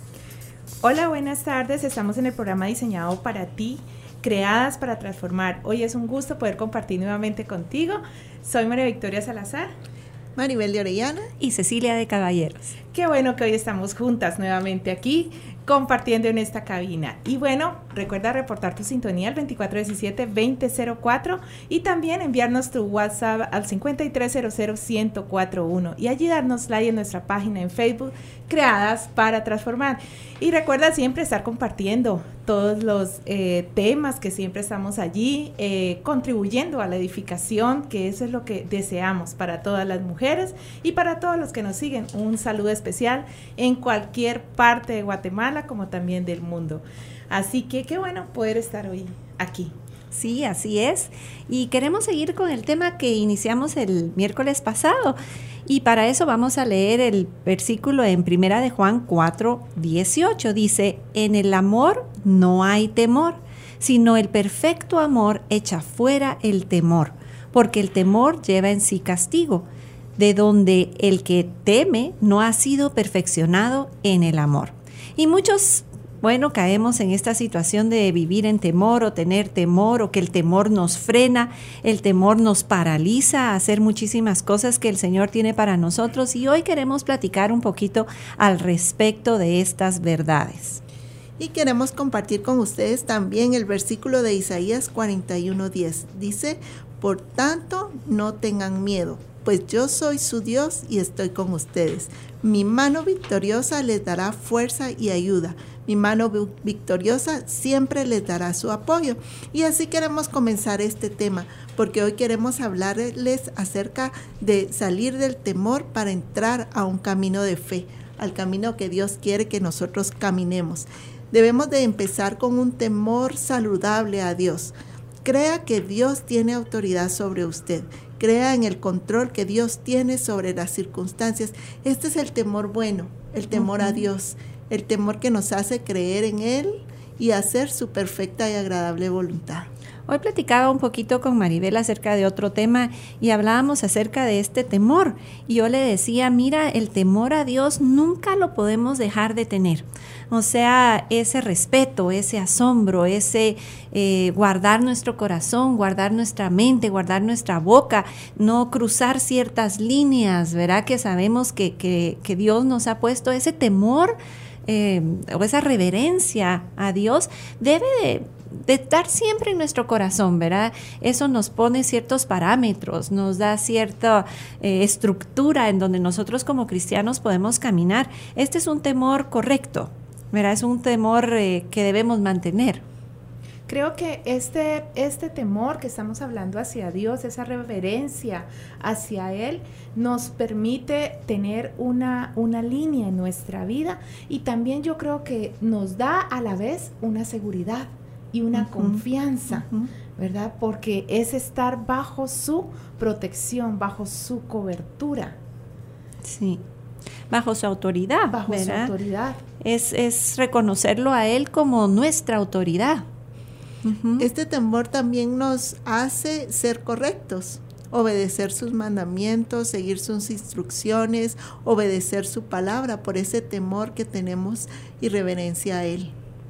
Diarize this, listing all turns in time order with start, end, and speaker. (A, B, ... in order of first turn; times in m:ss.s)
0:00.8-0:09.7 A
0:10.4-0:11.3 B
0:11.4-0:12.7 C
0:12.9-0:49.7 A
0:50.1-1:09.6 C
1:10.2-1:30.8 C
1:31.4-2:04.7 B
2:05.2-2:19.7 B
2:13.5-2:14.0 C
2:20.1-3:02.8 C
3:03.7-3:25.4 A
3:18.6-3:19.0 C
3:26.2-3:26.6 C
3:27.3-3:28.9 C
3:28.3-3:29.4 A
3:29.6-3:33.0 C
3:33.8-3:34.3 C
3:34.2-3:46.1 B